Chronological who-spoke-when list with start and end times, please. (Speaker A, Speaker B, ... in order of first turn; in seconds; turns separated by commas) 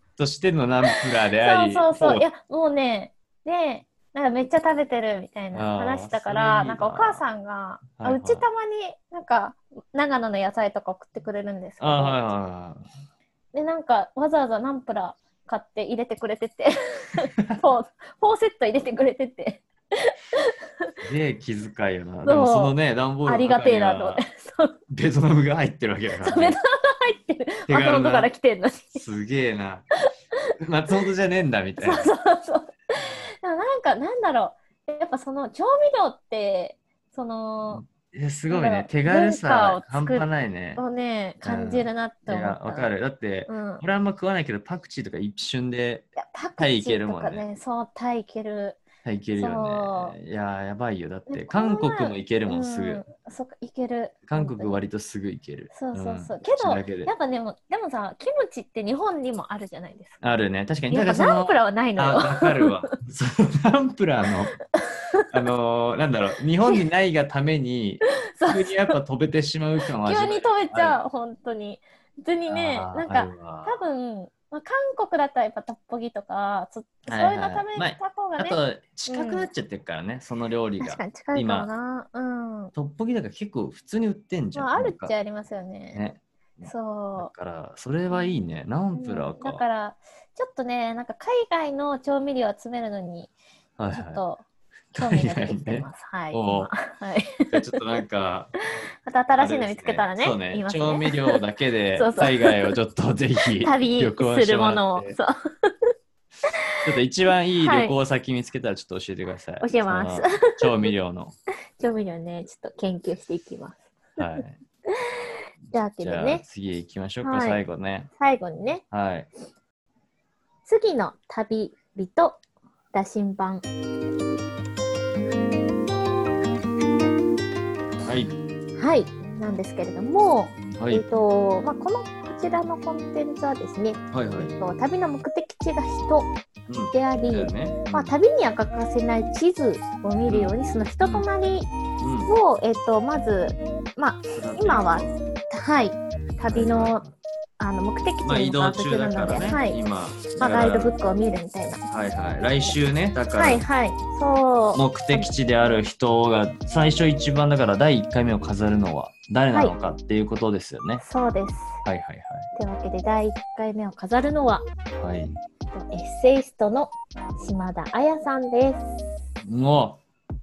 Speaker A: 0.2-2.2, Speaker B: 0.9-12.3, Speaker A: 5.5-7.2, Speaker A: 8.0-8.4, Speaker A: 11.8-12.8, Speaker B: 13.5-20.5, Speaker A: 21.0-24.2, Speaker B: 22.2-22.7, Speaker B: 23.3-24.8, Speaker A: 24.9-26.6, Speaker B: 26.2-29.0, Speaker A: 27.7-28.3, Speaker A: 28.9-29.9, Speaker A: 30.6-32.1, Speaker B: 31.8-37.8, Speaker A: 37.7-40.8, Speaker B: 38.5-42.9, Speaker A: 41.4-47.4, Speaker B: 43.5-43.8, Speaker B: 46.2-48.8, Speaker A: 49.0-53.1, Speaker B: 49.4-50.2, Speaker B: 51.3-54.8, Speaker A: 54.3-57.1, Speaker B: 55.7-60.2, Speaker A: 60.2-64.5, Speaker B: 60.9-62.8, Speaker B: 64.8-65.3, Speaker A: 65.3-71.0, Speaker B: 68.3-69.0, Speaker B: 70.0-79.5, Speaker A: 72.5-73.8, Speaker A: 77.1-81.7, Speaker B: 80.8-82.7, Speaker A: 82.7-85.1, Speaker B: 84.5-86.0, Speaker A: 85.9-89.6, Speaker B: 86.7-87.3, Speaker B: 88.9-93.3, Speaker A: 93.8-94.2, Speaker B: 93.9-94.4, Speaker A: 94.9-96.7, Speaker B: 95.0-98.0, Speaker A: 97.5-98.5, Speaker B: 99.0-101.4, Speaker A: 99.4-105.2, Speaker B: 102.0-102.8, Speaker B: 103.6-105.7, Speaker B: 106.5-106.8, Speaker A: 106.8-111.3, Speaker B: 107.6-108.0, Speaker B: 109.6-110.9, Speaker B: 111.8-114.4, Speaker A: 114.2-114.6, Speaker B: 115.7-116.4, Speaker A: 116.0-118.1, Speaker B: 117.2-117.6, Speaker B: 118.2-118.8, Speaker A: 118.9-119.3, Speaker B: 120.7-122.4, Speaker B: 122.9-123.7, Speaker A: 128.0-128.3, Speaker B: 128.8-136.3, Speaker A: 130.8-131.0, Speaker A: 134.1-134.6, Speaker A: 136.7-138.1, Speaker B: 136.9-141.7, Speaker A: 140.3-141.3, Speaker A: 142.0-142.3, Speaker B: 142.3-147.0, Speaker A: 144.3-145.2, Speaker A: 146.5-147.1, Speaker B: 147.6-149.8, Speaker A: 148.2-150.9, Speaker B: 150.4-151.9, Speaker A: 151.9-153.7, Speaker B: 153.3-155.3, Speaker A: 154.8-161.0, Speaker B: 161.0-161.8, Speaker A: 161.8-162.5, Speaker B: 162.6-164.6, Speaker A: 165.0-165.4, Speaker B: 165.7-168.9, Speaker A: 169.4-170.0